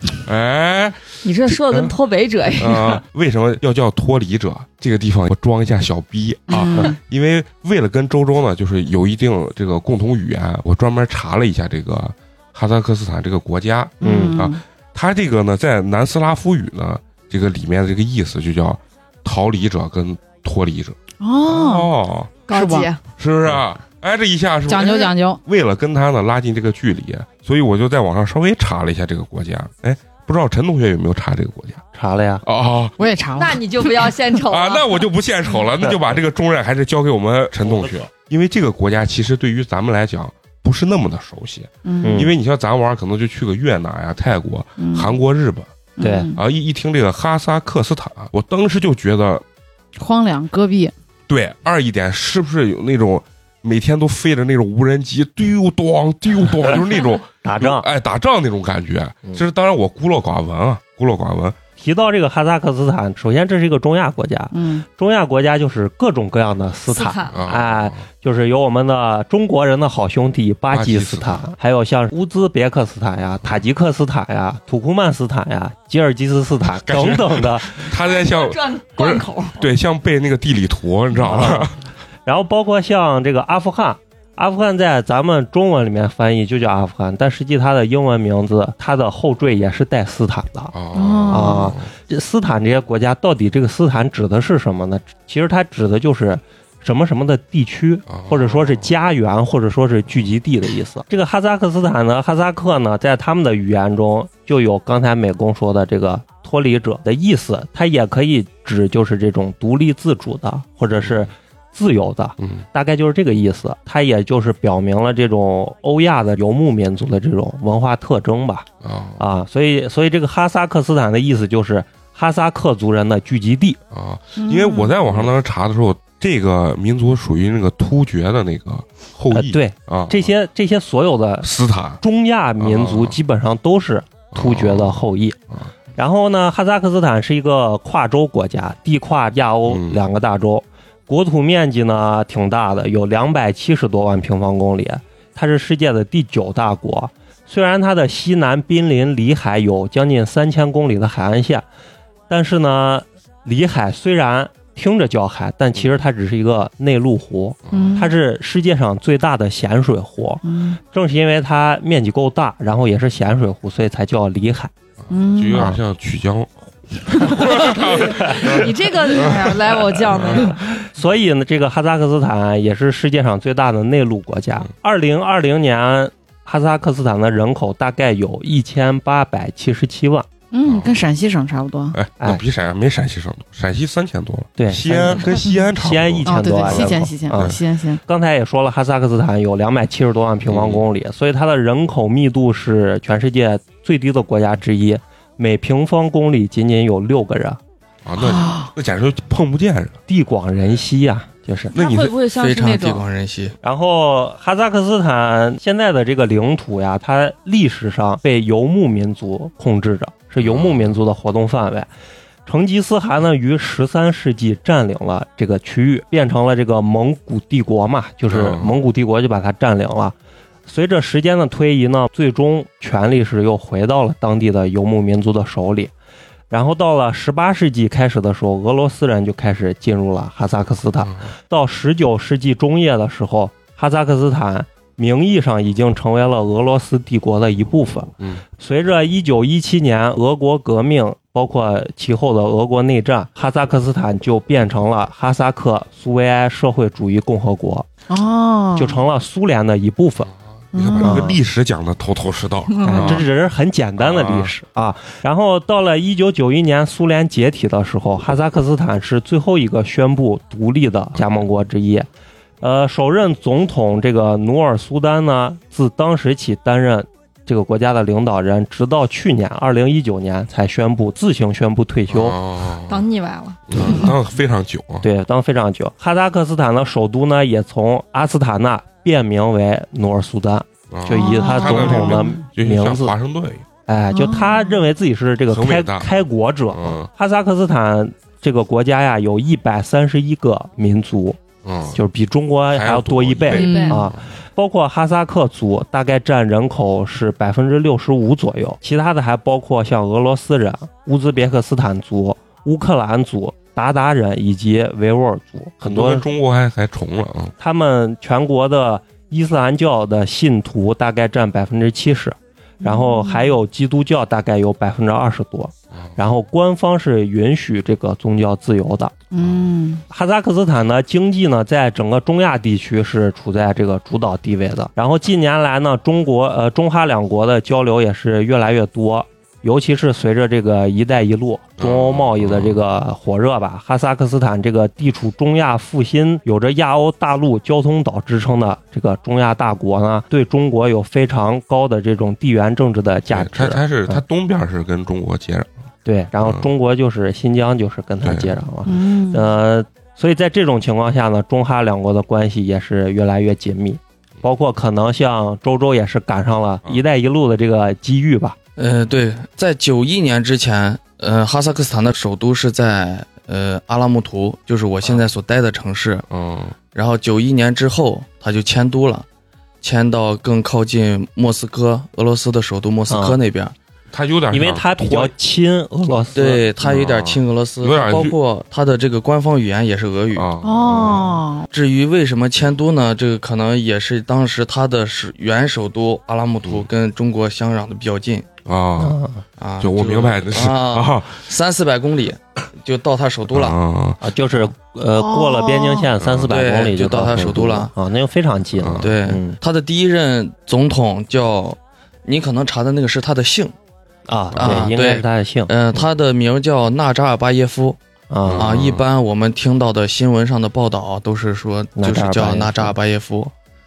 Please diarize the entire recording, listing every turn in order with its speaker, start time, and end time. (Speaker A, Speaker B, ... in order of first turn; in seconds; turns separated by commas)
Speaker A: 0.2-1.9, Speaker B: 1.2-3.0, Speaker A: 2.5-22.4, Speaker C: 6.5-7.0, Speaker C: 14.0-14.6, Speaker D: 14.0-14.4, Speaker C: 21.2-21.9, Speaker B: 22.5-23.0, Speaker C: 22.5-22.9, Speaker A: 23.2-31.8, Speaker C: 24.7-25.4, Speaker D: 31.9-32.4, Speaker A: 32.4-33.0, Speaker C: 33.0-33.6, Speaker B: 33.4-35.0, Speaker A: 34.4-45.7, Speaker C: 41.9-42.3, Speaker D: 42.0-42.3, Speaker C: 44.8-45.1, Speaker C: 46.0-46.4, Speaker D: 46.0-46.3, Speaker A: 46.3-49.4, Speaker C: 50.0-50.9, Speaker A: 51.3-61.6, Speaker D: 57.4-57.9, Speaker D: 61.8-77.8, Speaker C: 64.5-64.8, Speaker B: 66.9-67.3, Speaker A: 67.3-68.0, Speaker A: 70.7-71.4, Speaker A: 76.7-81.8, Speaker B: 77.9-79.7, Speaker D: 81.2-81.7, Speaker D: 82.3-90.7, Speaker A: 90.7-91.9, Speaker C: 90.9-91.7, Speaker D: 91.3-118.7, Speaker A: 98.1-98.9, Speaker A: 112.4-112.6, Speaker A: 118.8-119.2, Speaker D: 119.2-123.8, Speaker A: 123.9-130.3, Speaker C: 124.4-125.0, Speaker D: 129.3-131.5, Speaker A: 131.4-132.0, Speaker D: 132.0-135.4, Speaker A: 132.6-133.2, Speaker A: 134.3-135.0, Speaker D: 136.0-151.7, Speaker A: 139.7-140.0, Speaker D: 152.3-164.7, Speaker A: 157.7-158.0, Speaker C: 157.7-158.1, Speaker C: 160.4-160.8, Speaker A: 165.1-170.5, Speaker C: 165.1-165.7, Speaker D: 165.5-165.8, Speaker B: 167.7-170.6, Speaker D: 170.8-180.3, Speaker C: 180.5-182.0, Speaker A: 180.7-181.0, Speaker A: 181.9-187.6, Speaker D: 184.6-197.6, Speaker C: 186.2-188.0, Speaker A: 190.5-190.9, Speaker A: 198.0-200.0, Speaker C: 198.2-198.7, Speaker D: 200.1-201.7, Speaker B: 201.7-203.1, Speaker A: 201.7-202.2, Speaker E: 202.3-203.6, Speaker D: 203.6-211.9, Speaker A: 210.4-211.0, Speaker D: 212.5-220.2, Speaker A: 218.3-218.8, Speaker D: 220.7-225.9, Speaker D: 226.5-247.9, Speaker C: 248.1-249.0, Speaker D: 248.8-250.3, Speaker A: 250.7-253.2, Speaker C: 250.8-251.3, Speaker D: 251.0-251.4, Speaker D: 252.8-262.1, Speaker A: 254.0-254.5, Speaker A: 261.1-261.5, Speaker D: 262.6-272.4, Speaker A: 272.1-273.1, Speaker B: 272.9-274.1, Speaker A: 273.7-275.1, Speaker D: 275.0-283.1, Speaker A: 280.9-283.7, Speaker C: 281.1-282.4, Speaker D: 283.9-291.4, Speaker C: 284.1-284.9, Speaker A: 285.5-286.1, Speaker A: 286.7-287.1, Speaker A: 291.6-292.0, Speaker D: 291.9-306.3, Speaker A: 292.7-294.2, Speaker B: 293.5-294.0, Speaker C: 293.6-294.0, Speaker A: 305.8-307.5, Speaker D: 307.6-319.1, Speaker C: 312.8-313.6, Speaker C: 319.3-320.0, Speaker D: 320.1-344.2, Speaker A: 331.8-332.8, Speaker A: 343.3-345.7, Speaker D: 346.1-358.6, Speaker A: 346.4-346.7, Speaker A: 348.2-348.5, Speaker C: 348.9-349.5, Speaker E: 358.8-366.3, Speaker A: 366.3-366.8, Speaker E: 366.9-369.3, Speaker E: 369.8-373.8, Speaker D: 373.1-373.4, Speaker A: 374.1-375.3, Speaker D: 374.5-376.7, Speaker E: 376.3-380.5, Speaker A: 376.8-378.4, Speaker A: 380.3-381.3, Speaker C: 380.6-381.7, Speaker E: 381.7-388.5, Speaker A: 386.6-386.9, Speaker A: 388.6-389.2, Speaker D: 389.0-389.4, Speaker E: 389.6-393.8, Speaker A: 389.8-391.4, Speaker A: 393.5-394.2, Speaker D: 394.2-399.6, Speaker C: 395.1-396.1, Speaker A: 396.2-396.7, Speaker E: 396.5-397.9, Speaker A: 398.8-399.1, Speaker E: 399.0-403.8, Speaker D: 404.3-405.7, Speaker A: 404.5-404.9, Speaker E: 404.6-408.0, Speaker D: 408.3-408.7, Speaker A: 408.5-409.1, Speaker E: 408.6-413.5, Speaker D: 412.0-412.9